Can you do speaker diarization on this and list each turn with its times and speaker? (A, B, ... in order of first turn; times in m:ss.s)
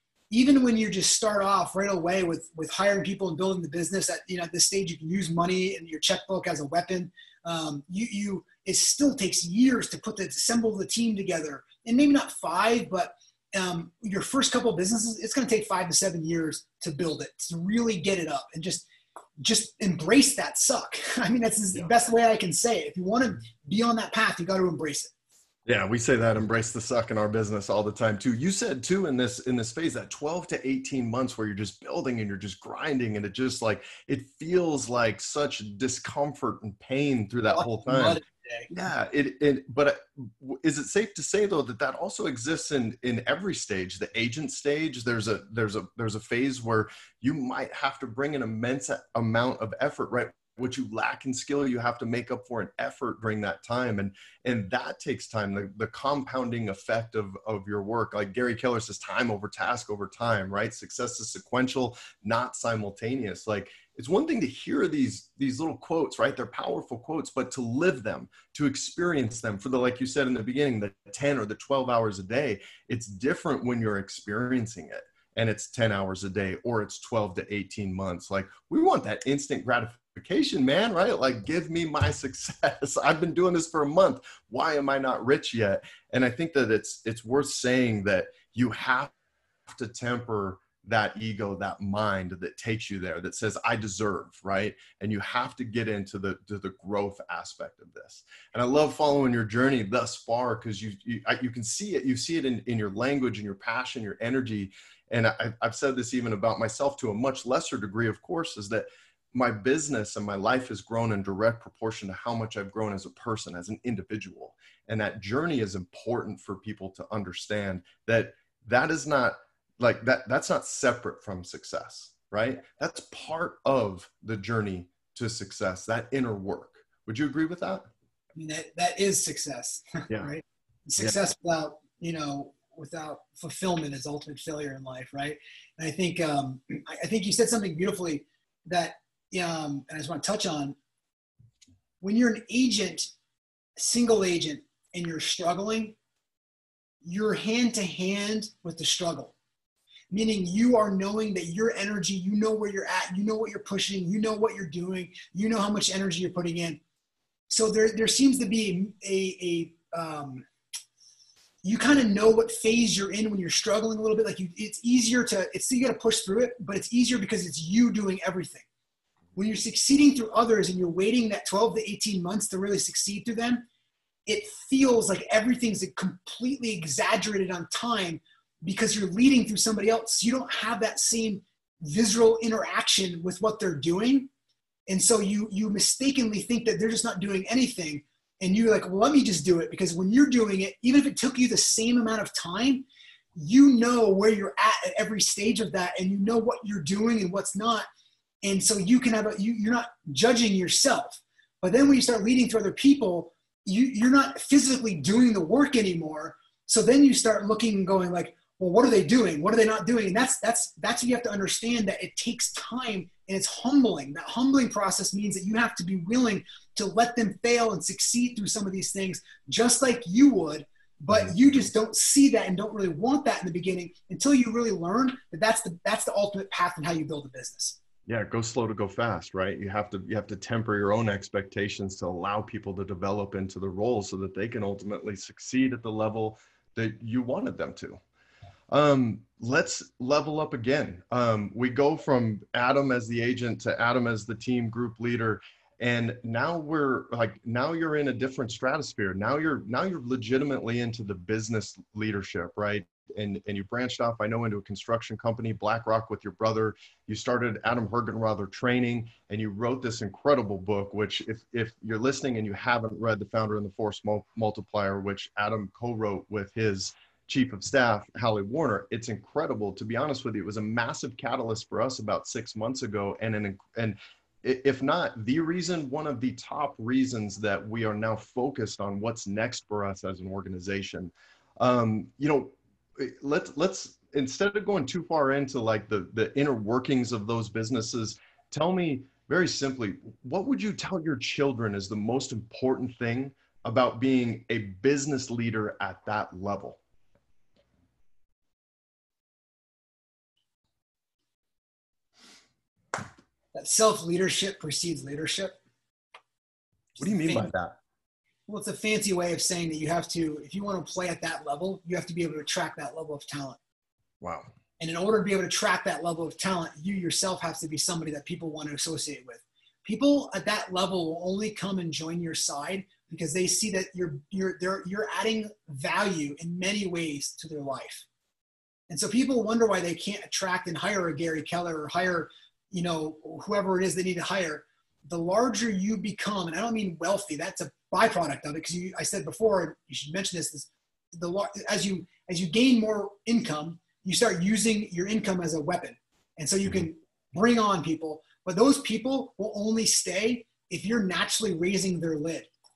0:00.3-0:18.8 A
0:19.4-0:25.1 A
0:25.6-1:29.1 B
0:37.5-0:38.7 A
1:29.7-2:07.8 B
2:08.3-2:20.8 A
2:10.1-2:10.3 B
2:22.0-2:23.1 A
2:23.8-2:25.9 A
2:27.0-2:29.3 A
2:30.1-2:36.8 A
2:37.5-2:40.4 A
2:41.6-2:48.6 A
2:49.4-2:53.6 A
2:54.3-3:04.3 A
3:04.9-3:12.8 A
3:13.4-3:17.9 A
3:18.4-3:47.8 A
3:41.1-3:41.6 B
3:48.1-3:58.0 B
3:58.7-4:56.8 B
5:03.5-5:05.6 A
5:07.0-5:07.5 A
5:07.0-5:07.8 B
5:08.5-5:13.6 A
5:14.2-5:14.5 B
5:14.8-5:28.0 A
5:28.9-5:52.5 A